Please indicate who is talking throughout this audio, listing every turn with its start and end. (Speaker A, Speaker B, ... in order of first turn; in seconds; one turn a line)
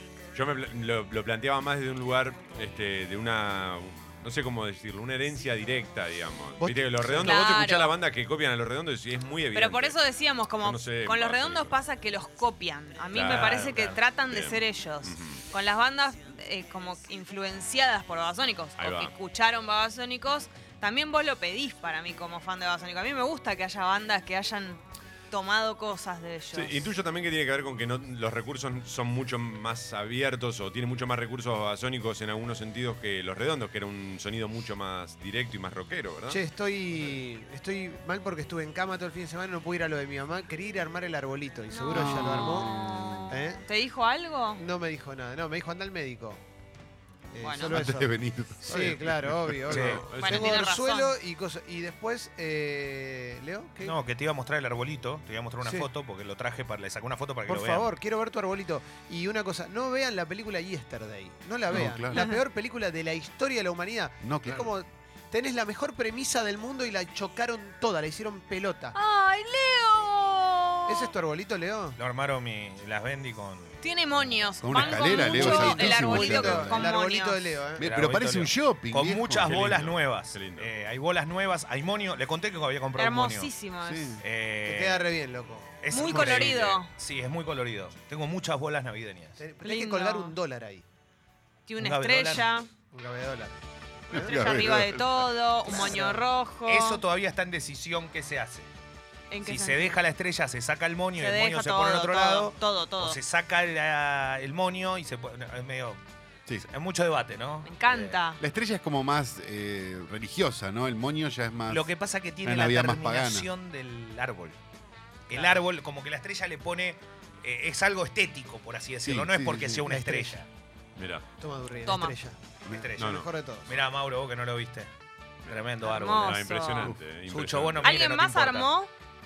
Speaker A: 0.3-10.0
Speaker B: 6.6-7.3
Speaker C: 7.2-7.9
Speaker C: 9.5-26.9
Speaker A: 10.6-11.8
Speaker A: 13.1-15.4
Speaker A: 18.8-19.1
Speaker A: 26.5-36.4
Speaker B: 36.3-42.7
Speaker C: 41.7-44.6
Speaker D: 41.9-43.3
Speaker B: 43.3-43.6
Speaker B: 44.6-46.4
Speaker B: 47.3-48.1
Speaker C: 47.4-47.8
Speaker D: 47.7-50.0
Speaker B: 48.6-54.0
Speaker A: 49.7-50.6
Speaker E: 49.7-50.1
Speaker C: 50.2-51.1
Speaker E: 53.8-57.9
Speaker B: 55.6-55.9
Speaker B: 57.5-69.0
Speaker D: 61.7-62.3
Speaker D: 64.2-64.7
Speaker C: 68.9-71.2
Speaker B: 70.9-72.0
Speaker E: 72.0-73.8
Speaker C: 73.8-77.5
Speaker D: 74.6-76.9
Speaker B: 74.7-77.9
Speaker D: 77.8-79.7
Speaker E: 77.8-83.5
Speaker A: 79.4-80.7
Speaker C: 83.0-84.2
Speaker D: 83.8-84.2
Speaker E: 84.2-85.1
Speaker B: 84.6-85.8
Speaker E: 85.8-89.4
Speaker C: 85.9-86.9
Speaker B: 89.4-90.8
Speaker C: 89.6-90.4
Speaker C: 91.7-92.7
Speaker E: 91.8-92.5
Speaker B: 92.9-93.6
Speaker B: 94.1-94.5
Speaker C: 94.1-97.0
Speaker D: 94.1-95.2
Speaker B: 95.7-96.3
Speaker E: 96.7-98.7
Speaker C: 99.3-100.0
Speaker E: 99.4-106.0
Speaker C: 101.2-103.2
Speaker E: 106.5-108.2
Speaker C: 107.6-108.4
Speaker D: 108.4-111.9
Speaker E: 111.7-114.6
Speaker D: 112.4-113.5
Speaker E: 115.3-120.5
Speaker D: 119.0-119.9
Speaker B: 119.9-120.4
Speaker A: 121.0-121.2
Speaker B: 121.4-123.8
Speaker C: 121.8-122.2
Speaker E: 122.7-124.9
Speaker A: 123.0-123.3
Speaker E: 125.5-126.5
Speaker C: 125.8-126.9
Speaker A: 126.2-128.0
Speaker E: 127.3-128.7
Speaker C: 127.8-128.9